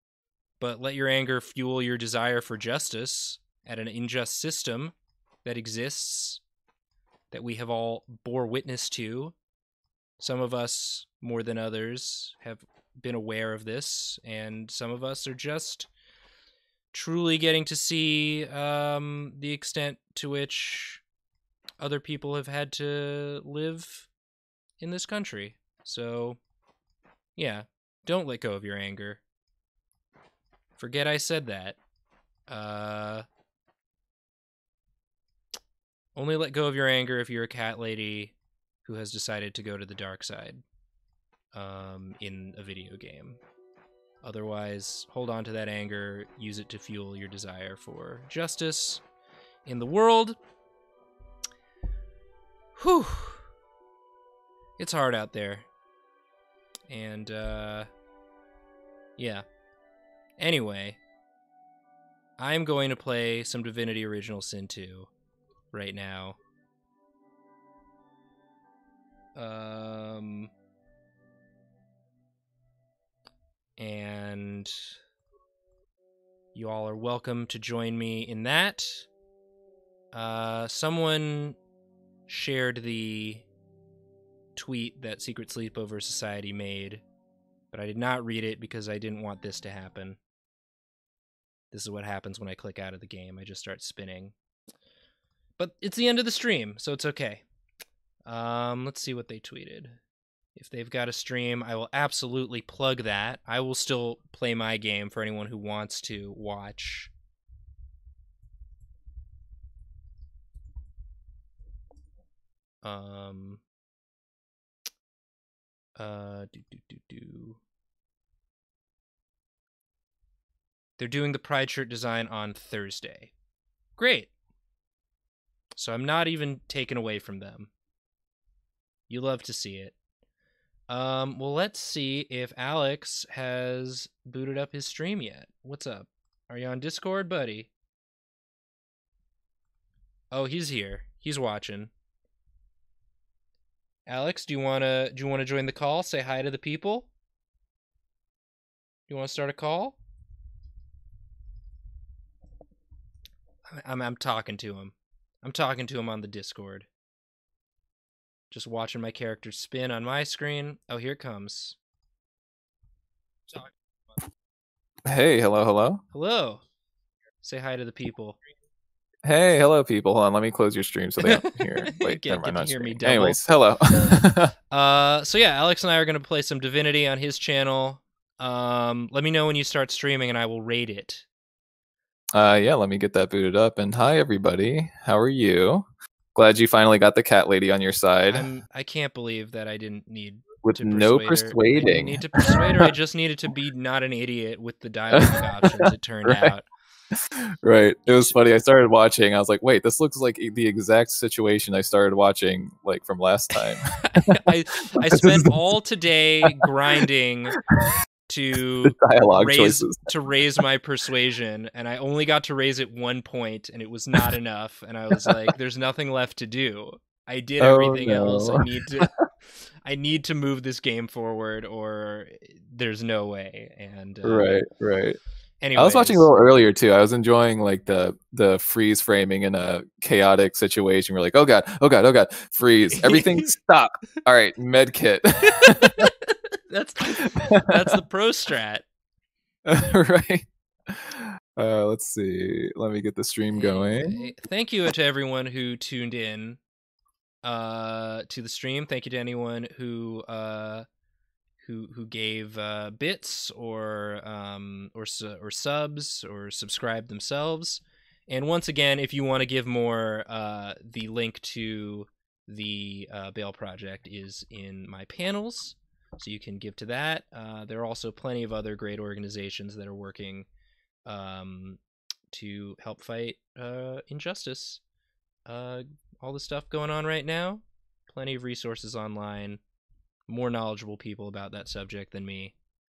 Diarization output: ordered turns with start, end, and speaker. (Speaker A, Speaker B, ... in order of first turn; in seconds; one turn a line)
Speaker A: 0.6-6.4
Speaker A: 7.3-9.3
Speaker A: 10.2-15.9
Speaker A: 16.9-21.0
Speaker A: 21.8-24.1
Speaker A: 24.8-26.4
Speaker A: 27.4-29.2
Speaker A: 30.8-31.8
Speaker A: 32.5-33.2
Speaker A: 36.1-40.6
Speaker A: 41.5-43.4
Speaker A: 44.2-49.0
Speaker A: 49.7-50.4
Speaker A: 52.8-53.5
Speaker A: 54.8-55.7
Speaker A: 56.9-57.9
Speaker A: 59.2-59.5
Speaker A: 60.4-61.0
Speaker A: 62.4-65.1
Speaker A: 65.7-66.4
Speaker A: 69.3-70.5
Speaker A: 73.8-74.9
Speaker A: 76.5-79.1
Speaker A: 80.1-81.6
Speaker A: 82.3-83.5
Speaker A: 84.6-87.0
Speaker A: 87.7-90.2
Speaker A: 91.7-94.3
Speaker A: 95.6-97.4
Speaker A: 98.3-100.0
Speaker A: 100.6-107.1
Speaker A: 112.8-113.6
Speaker A: 116.0-117.6
Speaker A: 121.0-123.3
Speaker A: 124.0-124.3
Speaker A: 125.8-127.7
Speaker A: 129.1-129.9
Speaker A: 130.9-137.7
Speaker A: 140.3-141.9
Speaker A: 144.1-147.1
Speaker A: 149.1-150.0
Speaker A: 153.7-156.9
Speaker A: 158.5-161.8
Speaker B: 165.1-166.0
Speaker A: 166.1-166.7
Speaker A: 167.4-168.4
Speaker B: 169.2-174.5
Speaker A: 171.2-173.4
Speaker A: 174.7-181.2
Speaker B: 182.4-188.5
Speaker A: 188.3-196.7
Speaker B: 190.6-192.9
Speaker B: 195.1-196.5
Speaker B: 197.6-204.4
Speaker A: 204.0-207.6
Speaker B: 205.0-205.7
Speaker A: 208.3-219.1
Speaker B: 208.8-210.1
Speaker B: 215.2-215.5
Speaker B: 217.6-219.1
Speaker A: 219.8-224.5
Speaker B: 224.2-225.2
Speaker A: 225.6-226.3
Speaker B: 225.8-236.1
Speaker A: 232.9-233.5
Speaker A: 235.6-238.8
Speaker B: 237.1-237.9
Speaker B: 239.7-244.3
Speaker A: 243.5-246.6
Speaker A: 247.4-250.9
Speaker A: 251.6-270.5
Speaker A: 271.1-271.8
Speaker A: 272.3-274.8
Speaker A: 275.5-279.6
Speaker A: 280.3-282.6